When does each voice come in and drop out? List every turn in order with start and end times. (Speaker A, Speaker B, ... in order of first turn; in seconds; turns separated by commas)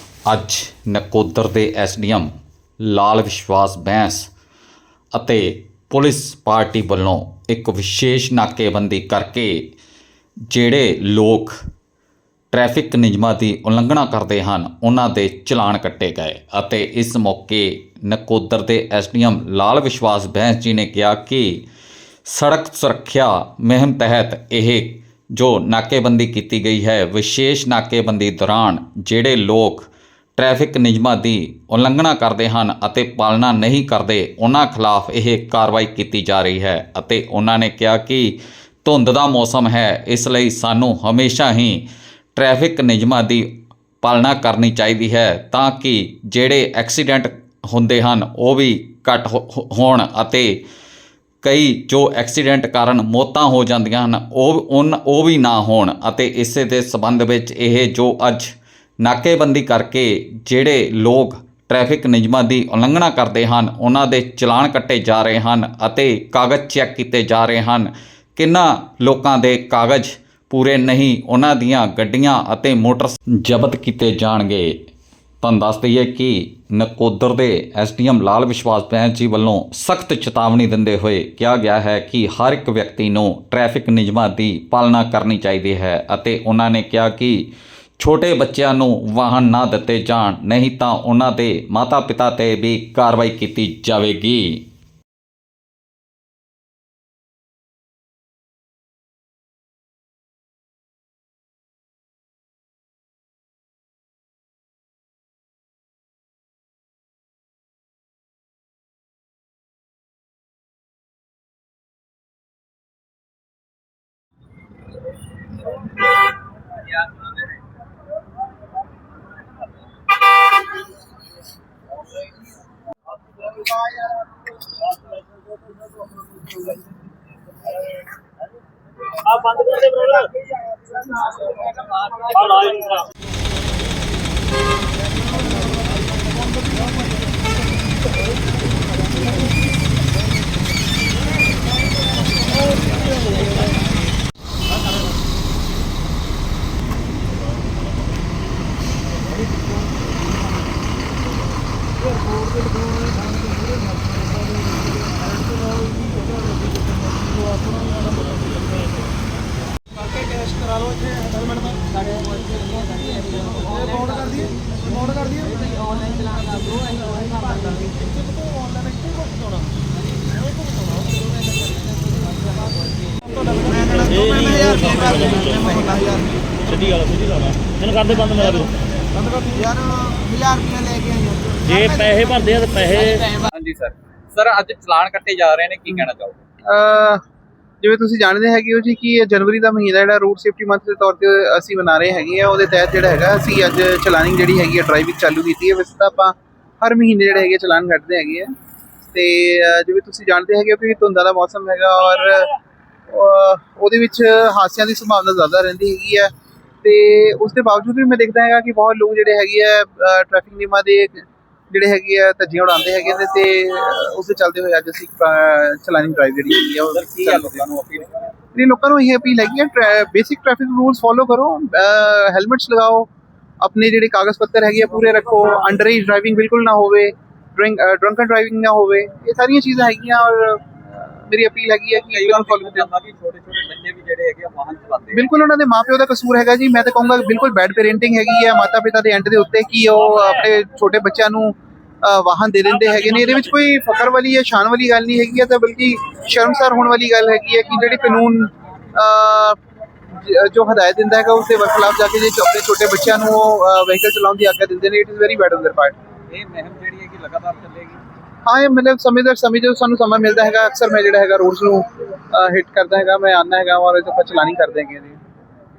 Speaker A: 0.3-2.3, Speaker A: 2.8-4.3, Speaker A: 5.1-9.6, Speaker A: 10.5-11.6, Speaker A: 12.5-21.6, Speaker A: 22.2-41.8, Speaker A: 42.4-43.5, Speaker A: 44.0-50.6, Speaker A: 51.4-74.8, Speaker A: 75.4-94.6, Speaker B: 129.2-130.5, Speaker B: 132.2-133.0, Speaker B: 164.0-164.4, Speaker B: 165.1-165.4, Speaker B: 173.7-176.2, Speaker B: 176.7-178.7, Speaker B: 180.3-183.1, Speaker C: 182.9-186.4, Speaker D: 186.6-187.2, Speaker D: 187.8-198.5, Speaker D: 199.1-202.5, Speaker D: 203.1-206.3, Speaker D: 206.8-217.6, Speaker C: 216.9-218.2, Speaker D: 218.5-223.1, Speaker D: 223.6-232.9, Speaker C: 232.1-235.3, Speaker D: 235.1-249.6, Speaker D: 250.1-255.9, Speaker C: 256.3-258.0, Speaker D: 258.4-265.2